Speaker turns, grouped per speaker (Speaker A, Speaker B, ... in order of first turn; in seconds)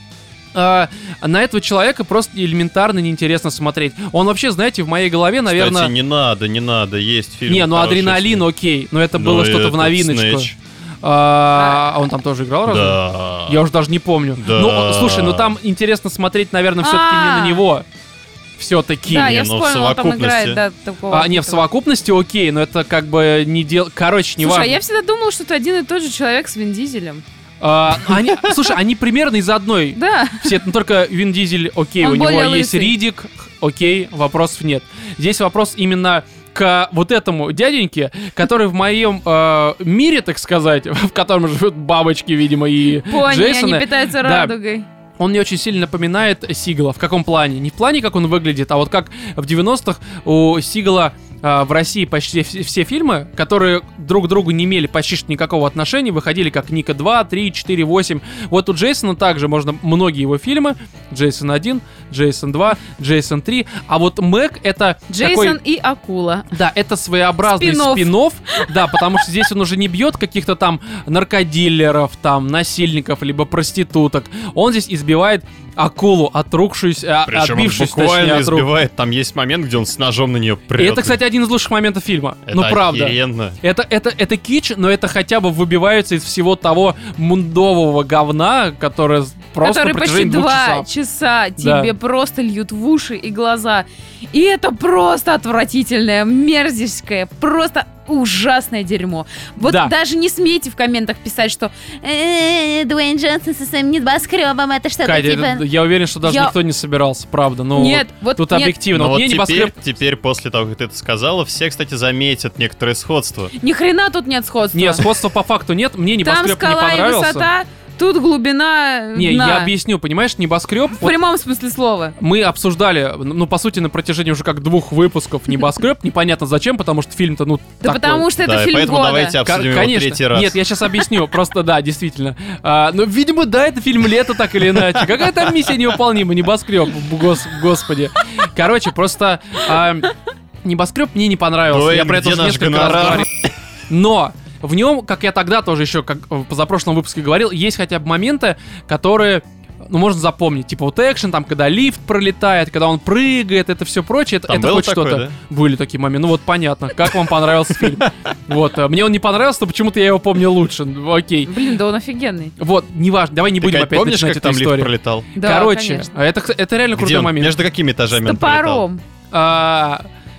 Speaker A: 0.5-5.9, 7.5-10.5, 11.0-17.9, 18.6-19.3, 21.1-24.8, 27.6-44.5, 45.2-65.6, 66.5-78.7, 80.8-90.9, 91.6-91.9, 99.6-99.9, 105.0-109.8, 114.7-117.5, 119.2-121.2, 122.2-128.3, 129.4-140.1, 140.6-143.3, 143.9-161.5, 162.6-167.6, 169.3-170.1
Speaker B: 5.5-8.5, 9.1-10.6, 12.7-13.6, 14.4-15.5, 19.1-20.6, 77.2-81.2, 82.5-83.6, 108.9-113.5, 128.4-130.6, 141.7-143.5, 154.5-155.3, 163.6-165.3, 166.9-168.8
Speaker C: 11.6-11.9, 16.8-17.7, 19.1-21.6, 24.4-27.2, 30.0-30.6, 32.0-33.0, 43.0-44.9, 65.1-66.5, 67.4-68.6, 89.6-105.7, 106.2-106.5, 107.8-108.8, 113.6-115.1, 116.2-119.7, 121.0-122.2, 127.8-129.4, 161.5-162.6, 165.4-166.1, 168.1-169.0